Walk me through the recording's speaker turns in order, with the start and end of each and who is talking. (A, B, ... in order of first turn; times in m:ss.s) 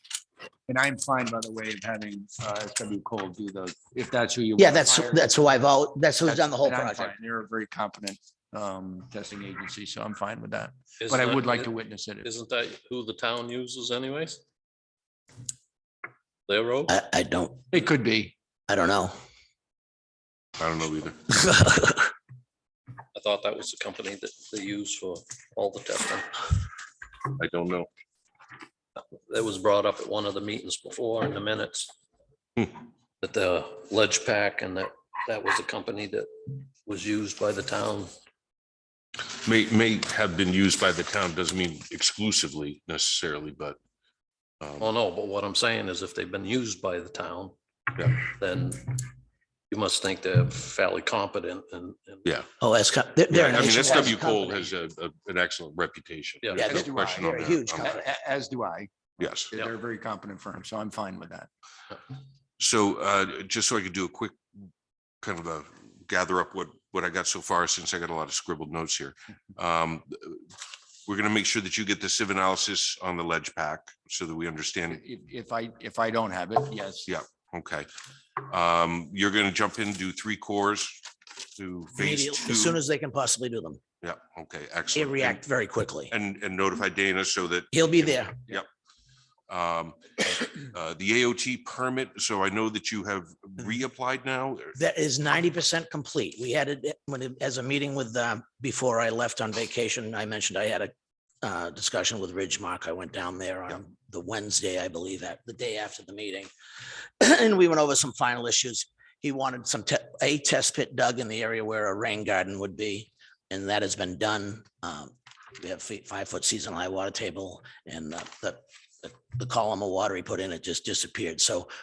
0:00.7-0:05.3 A
0:04.6-0:07.1 B
0:06.2-0:12.3 A
0:11.0-0:11.7 C
0:12.2-0:14.4 C
0:16.5-0:16.9 C
0:16.9-0:17.6 B
0:17.7-0:18.3 A
0:18.7-0:19.2 B
0:20.6-0:21.4 D
0:21.4-0:22.1 B
0:23.1-0:26.4 C
0:27.4-0:27.9 D
0:29.0-0:31.9 C
0:33.2-0:38.1 C
0:39.3-0:43.8 D
0:44.6-0:44.9 D
0:44.8-0:49.0 C
0:49.7-0:52.2 C
0:52.6-0:54.7 B
0:53.3-0:57.9 D
0:56.4-0:56.7 C
0:56.6-0:58.1 B
0:56.6-0:58.9 A
0:59.2-0:59.5 D
0:59.5-1:01.5 A
1:02.6-1:04.4 D
1:05.2-1:10.4 D
1:11.0-1:15.0 D
1:14.9-1:17.1 A
1:17.1-1:17.9 D
1:18.4-1:22.8 D
1:22.0-1:23.8 B
1:24.0-1:25.4 D
1:24.9-1:26.1 B
1:26.1-1:28.7 D
1:27.7-1:28.4 B
1:29.5-1:34.8 D
1:34.8-1:46.5 B
1:47.2-2:01.7 B